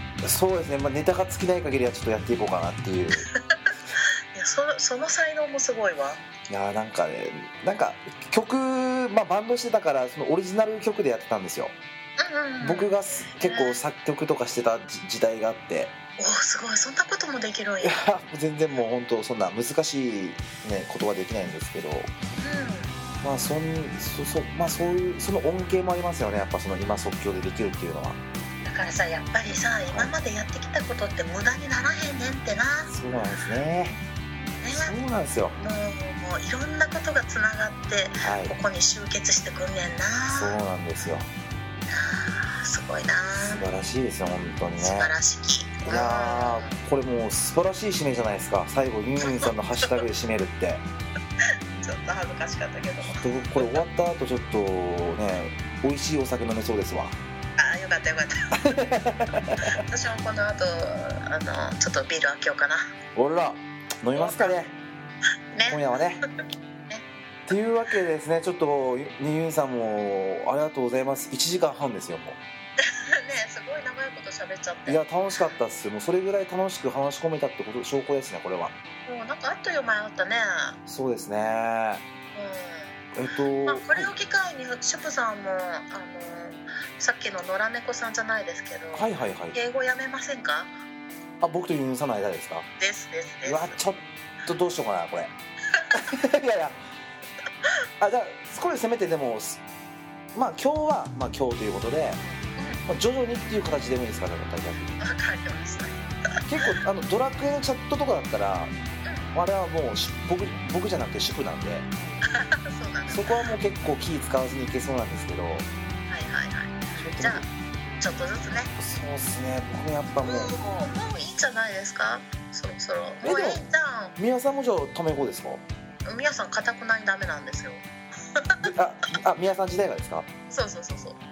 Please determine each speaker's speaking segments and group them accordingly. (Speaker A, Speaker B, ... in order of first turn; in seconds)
Speaker A: 0.2-3.3, 6.5-11.8, 12.6-15.9, 17.8-22.1, 23.2-28.2, 29.9-30.1, 32.9-34.0, 34.7-35.6, 38.2-38.6, 40.3-41.3, 43.4-45.1, 45.9-50.9, 53.0-57.2, 58.6-59.6, 63.1-64.8, 65.7-66.2, 67.5-72.4, 74.9-78.7, 80.9-82.0, 83.2-84.1, 88.9-89.6, 91.4-92.7, 93.4-95.3, 95.9-96.8, 98.0-99.6, 100.3-102.2, 102.9-105.0, 106.5-108.7, 109.3-111.9, 113.1-115.7, 117.0-117.5, 118.8-120.5, 123.2-123.6, 124.2-125.6, 128.6-130.3
Speaker B: 3.3-6.2, 12.2-13.8, 16.2-18.0, 22.4-22.9, 28.6-32.9, 34.6-35.0, 35.6-40.6, 41.9-43.7, 44.8-46.8, 49.2-50.0, 51.8-53.8, 57.6-58.3, 59.7-62.8, 64.1-64.6, 65.5-66.0, 66.9-67.5, 72.8-75.0, 79.1-80.8, 82.3-82.9, 83.6-90.7, 92.8-93.8, 102.6-102.8, 105.0-106.0, 112.2-113.4, 116.1-117.5, 118.0-118.7, 120.2-124.2, 126.1-127.8, 128.4-128.7, 130.5-131.2